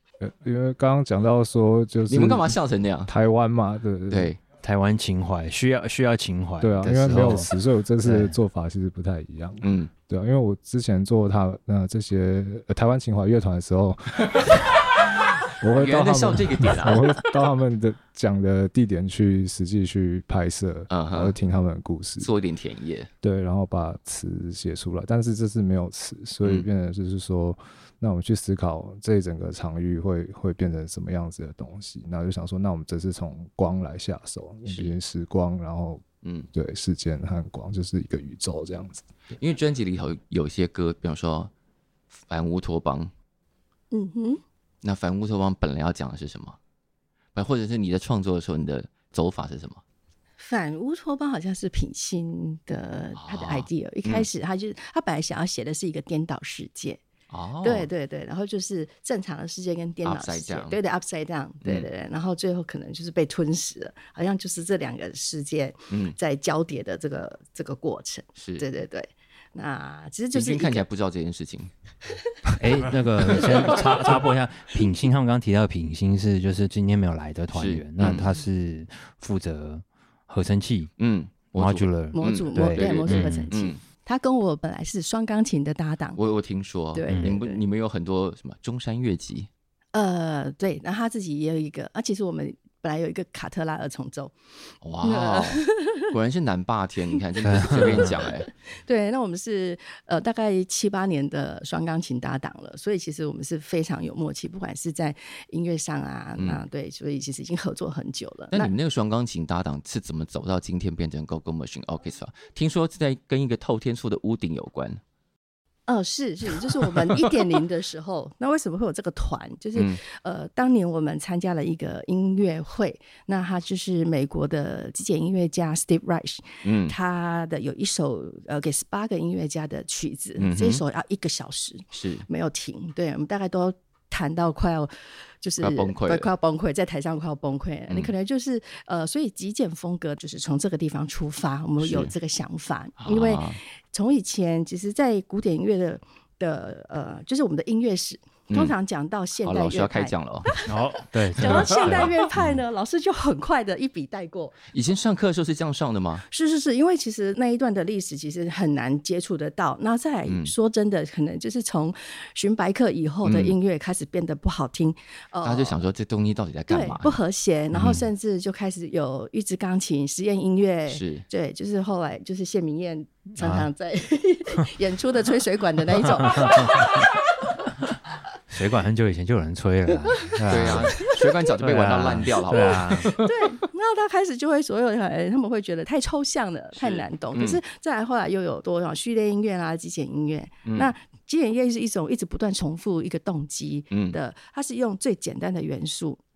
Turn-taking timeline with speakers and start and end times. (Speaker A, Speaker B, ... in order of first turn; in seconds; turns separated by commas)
Speaker A: 0.2-4.3, Speaker B: 2.1-3.1, Speaker B: 4.1-4.4, Speaker C: 4.6-7.5, Speaker A: 6.6-14.6, Speaker B: 6.8-7.4, Speaker C: 8.0-8.3, Speaker B: 9.6-9.9, Speaker B: 14.3-17.2, Speaker A: 15.5-22.3, Speaker B: 20.9-21.4, Speaker B: 22.2-23.1, Speaker A: 23.2-39.1, Speaker B: 34.7-35.0, Speaker B: 36.2-36.5, Speaker B: 39.4-41.5, Speaker B: 42.2-43.1, Speaker D: 43.9-44.4, Speaker B: 44.8-46.6, Speaker B: 47.4-49.8, Speaker D: 50.4-57.0, Speaker B: 53.2-54.3, Speaker B: 57.3-57.9, Speaker D: 57.6-70.8, Speaker B: 60.0-60.8, Speaker B: 65.9-66.2, Speaker B: 68.4-68.7, Speaker B: 70.3-71.7, Speaker C: 72.6-80.9, Speaker B: 73.3-73.9, Speaker B: 77.5-78.4, Speaker B: 81.0-83.8, Speaker C: 81.5-83.5, Speaker D: 82.1-86.2, Speaker B: 86.2-89.5, Speaker D: 87.0-87.6, Speaker C: 87.1-87.4, Speaker D: 89.9-94.3, Speaker B: 94.8-98.5, Speaker D: 95.0-96.0, Speaker C: 97.4-98.1, Speaker D: 97.8-108.7, Speaker B: 106.4-106.6, Speaker B: 108.5-115.0, Speaker D: 115.9-150.8, Speaker B: 119.8-120.0, Speaker B: 126.6-127.0, Speaker B: 130.4-130.8, Speaker B: 131.9-132.3, Speaker B: 135.6-136.3, Speaker B: 141.8-142.1, Speaker B: 143.0-143.6, Speaker B: 148.5-148.8, Speaker B: 149.4-150.6, Speaker C: 150.7-152.1, Speaker D: 151.3-154.6, Speaker B: 151.4-152.6, Speaker B: 154.7-156.2, Speaker D: 156.3-165.8, Speaker B: 160.3-160.5, Speaker B: 163.2-163.6, Speaker B: 165.4-167.2, Speaker D: 166.7-177.2, Speaker B: 167.7-168.0, Speaker B: 170.9-171.3, Speaker C: 173.4-173.7, Speaker C: 176.2-176.9, Speaker C: 178.5-183.1, Speaker B: 180.5-183.5, Speaker D: 182.5-196.2, Speaker B: 186.8-187.6, Speaker B: 190.7-190.9, Speaker B: 193.9-194.2